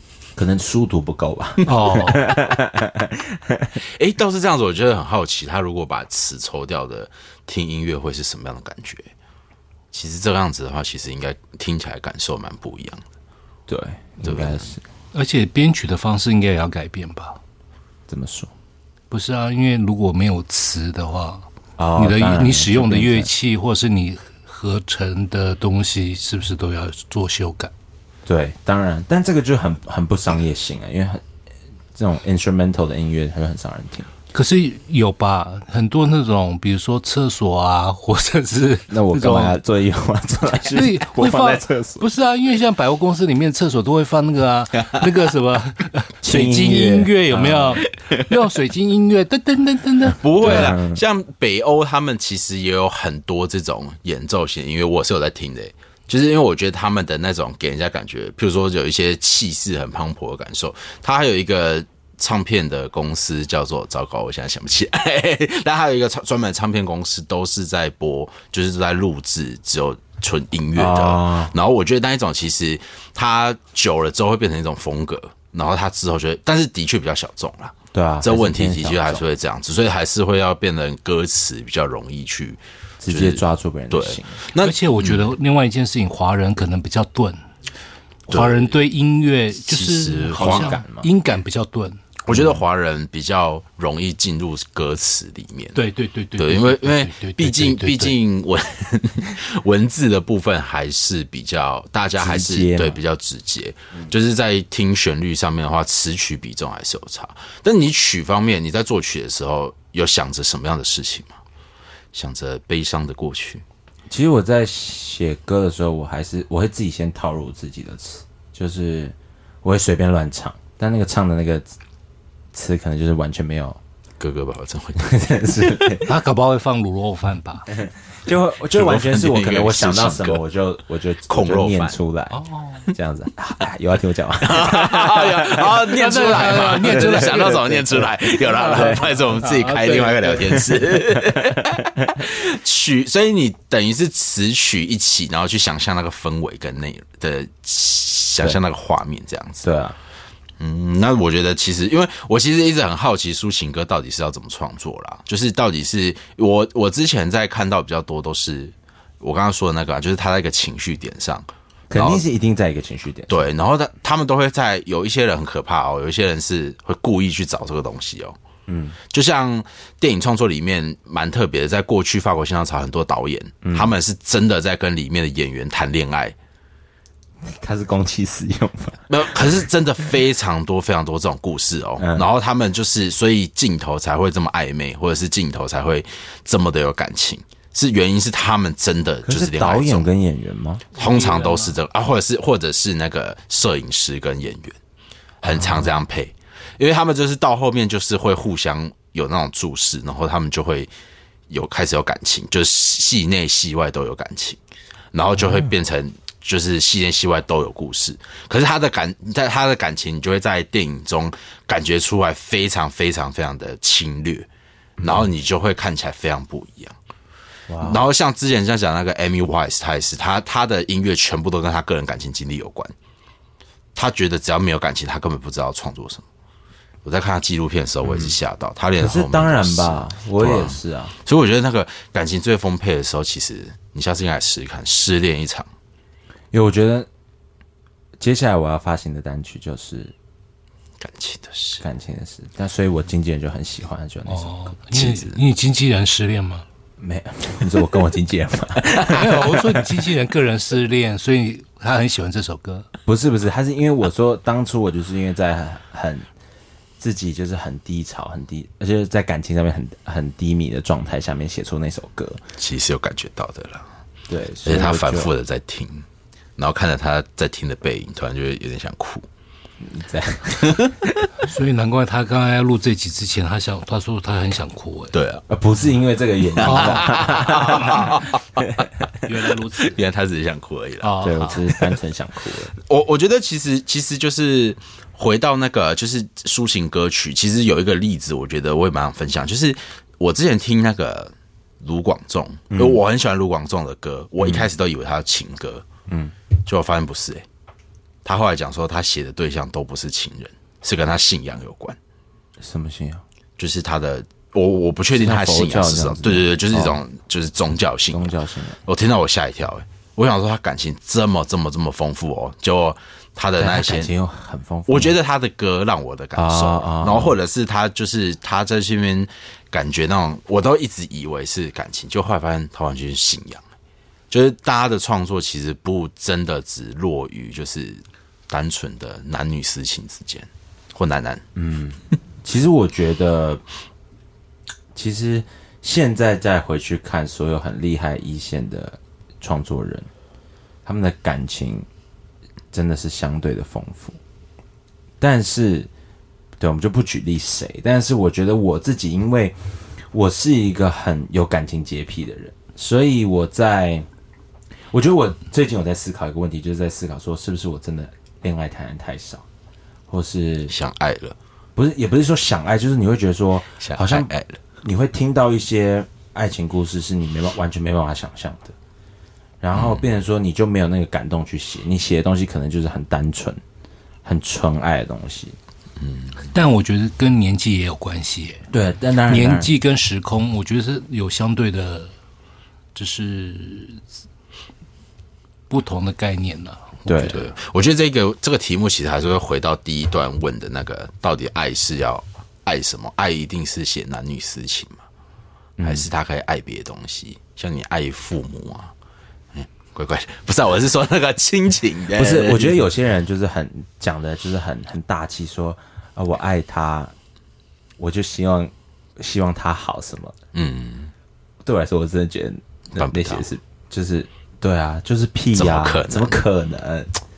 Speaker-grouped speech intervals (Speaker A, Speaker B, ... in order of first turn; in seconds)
Speaker A: 0.3-3.8, 13.7-14.8, 18.1-18.5, 21.8-23.3, 28.2-31.2, 31.9-34.1, 38.9-42.0, 46.2-47.8, 50.4-51.0, 70.7-71.5, 77.9-79.2, 83.0-84.4, 90.3-91.1, 92.3-92.6, 102.2-103.0, 114.1-121.7, 122.5-123.8, 125.0-126.1, 128.1-135.8, 136.8-137.3, 141.3-141.8, 149.6-150.0, 161.9-163.5, 168.7-169.0, 173.6-173.9, 177.4-179.1, 182.0-182.3, 189.2-190.8, 195.4-195.9, 215.0-215.2, 217.7-218.0, 229.0-231.1, 236.5-237.1, 238.2-240.1, 241.8-245.2, 247.0-249.9, 253.1-256.3, 257.0-262.4, 264.3-265.3, 269.8-271.3, 275.5-278.1, 281.2-282.7, 292.7-293.0, 294.4-294.7, 296.1-296.3, 302.6-303.2, 305.1-307.0, 308.1-308.8, 313.6-315.1, 316.3-317.4, 331.5-333.6, 334.9-340.1, 340.9-341.9, 342.7-344.2, 345.2-345.9, 346.6-349.5, 350.1-354.1, 354.9-359.4, 360.1-360.7, 361.8-368.7, 369.6-373.6, 374.2-375.6, 378.7-379.7, 387.1-387.4, 395.8-396.1, 402.1-407.1, 408.0-410.4, 411.6-417.2
Speaker B: 1.6-2.4, 15.1-17.4, 19.1-21.4, 22.0-27.7, 34.3-39.6, 40.7-50.7, 84.6-87.4, 88.3-92.0, 95.7-98.2, 126.0-127.7, 132.3-132.8, 135.8-140.7, 190.9-191.7, 244.3-246.6, 249.0-252.9, 271.4-275.1, 276.6-278.0, 279.2-280.0, 281.0-281.7, 376.5-378.7, 379.3-382.1, 382.9-384.0, 385.7-387.5
Speaker C: 3.8-9.1, 9.9-13.1, 14.2-14.7, 44.8-45.1, 50.1-85.3, 88.3-88.8, 89.7-90.8, 92.2-95.8, 96.4-111.4, 112.1-113.6, 124.2-125.9, 128.7-130.4, 131.3-132.0, 134.4-149.7, 150.6-162.2, 163.3-168.4, 169.1-176.3, 179.1-190.1, 190.9-194.8, 195.4-200.9, 201.5-204.6, 205.1-214.5, 215.0-217.0, 217.8-222.9, 223.9-226.2, 227.0-235.7, 241.0-241.8, 262.6-263.9, 264.6-266.1, 266.6-269.3, 275.1-275.4, 276.4-281.1, 282.8-295.8, 296.6-297.4, 298.2-302.0, 303.6-308.3, 308.8-314.1, 314.9-323.6, 324.3-331.4, 360.7-361.4, 363.8-364.6, 369.7-370.0, 376.0-376.5, 387.3-395.0, 395.8-398.9, 399.5-402.8, 410.5-411.1, 412.9-413.5, 415.5-416.4